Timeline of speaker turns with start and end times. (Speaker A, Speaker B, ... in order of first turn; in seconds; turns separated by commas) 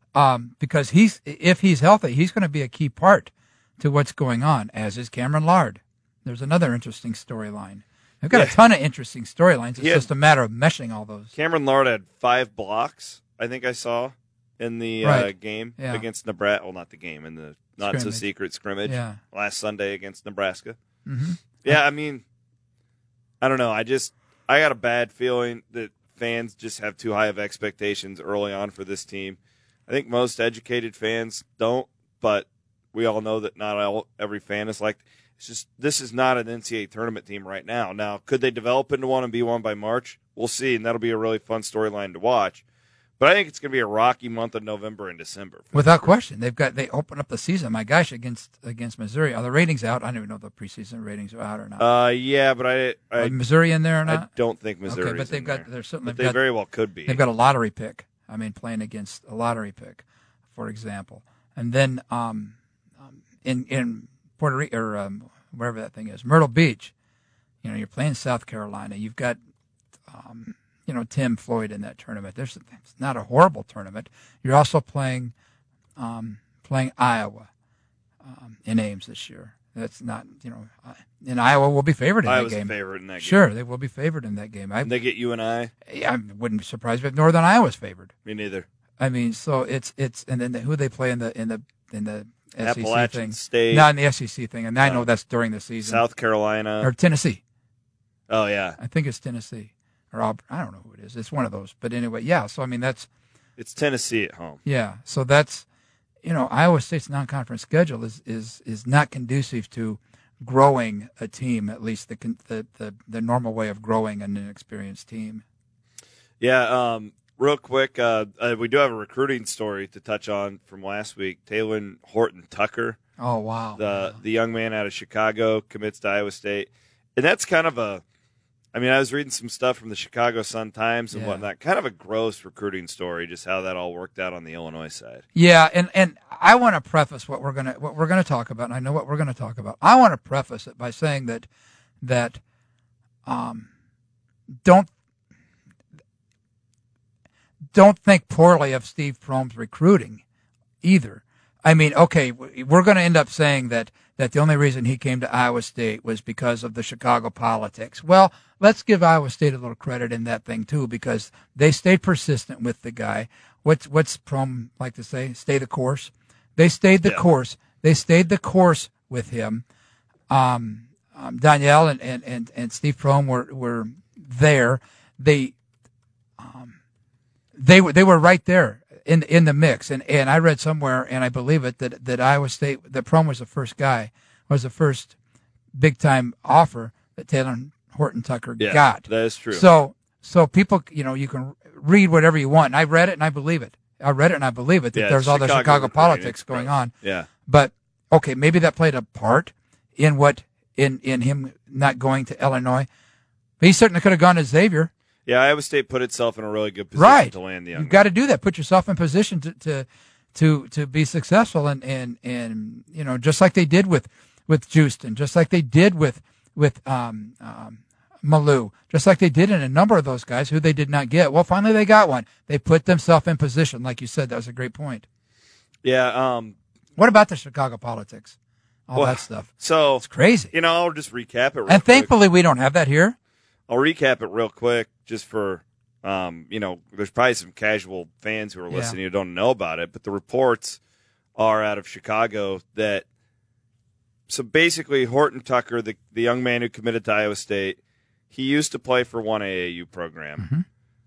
Speaker A: 0.1-11.3, Speaker B: 8.3-8.6, Speaker B: 9.8-10.1, Speaker B: 11.3-20.8, Speaker A: 15.0-16.0, Speaker A: 17.8-18.2, Speaker A: 18.9-19.2, Speaker A: 21.1-21.8, Speaker B: 21.6-22.2, Speaker B: 23.4-42.6, Speaker B: 43.2-46.1, Speaker A: 45.7-51.9, Speaker B: 51.8-53.4, Speaker A: 53.2-54.3, Speaker B: 54.0-57.2, Speaker A: 54.9-56.4, Speaker A: 57.1-66.9, Speaker A: 67.6-69.4, Speaker A: 70.1-75.3, Speaker A: 76.0-77.5, Speaker A: 78.2-84.9, Speaker B: 82.2-83.5, Speaker B: 84.8-85.7, Speaker A: 85.9-88.1, Speaker B: 88.3-88.7, Speaker A: 89.0-96.0, Speaker B: 92.6-93.9, Speaker B: 94.8-95.1, Speaker B: 95.8-96.9, Speaker A: 96.8-97.4, Speaker B: 98.3-98.8, Speaker A: 98.8-103.1, Speaker B: 103.6-104.6, Speaker A: 104.7-105.7, Speaker A: 106.2-115.4, Speaker B: 116.4-123.0, Speaker A: 123.2-124.2, Speaker B: 123.8-128.0, Speaker B: 128.7-135.2, Speaker A: 131.1-131.4, Speaker A: 135.3-141.5, Speaker A: 142.0-142.4, Speaker A: 143.3-143.7, Speaker A: 144.6-144.9, Speaker A: 147.7-150.2, Speaker A: 150.8-169.6, Speaker A: 170.3-175.6, Speaker A: 176.4-176.8, Speaker A: 177.6-185.2, Speaker A: 185.8-196.9, Speaker B: 188.6-189.7, Speaker B: 194.9-197.3, Speaker A: 197.5-202.9, Speaker A: 203.6-204.9, Speaker B: 205.3-208.0, Speaker A: 207.0-225.1, Speaker B: 225.8-226.6, Speaker A: 227.0-228.3, Speaker A: 228.9-230.5, Speaker B: 228.9-232.1, Speaker A: 231.7-233.2, Speaker B: 233.7-240.8, Speaker A: 238.7-239.0, Speaker B: 241.4-243.1, Speaker B: 244.3-247.8, Speaker B: 248.3-250.4, Speaker A: 250.4-250.7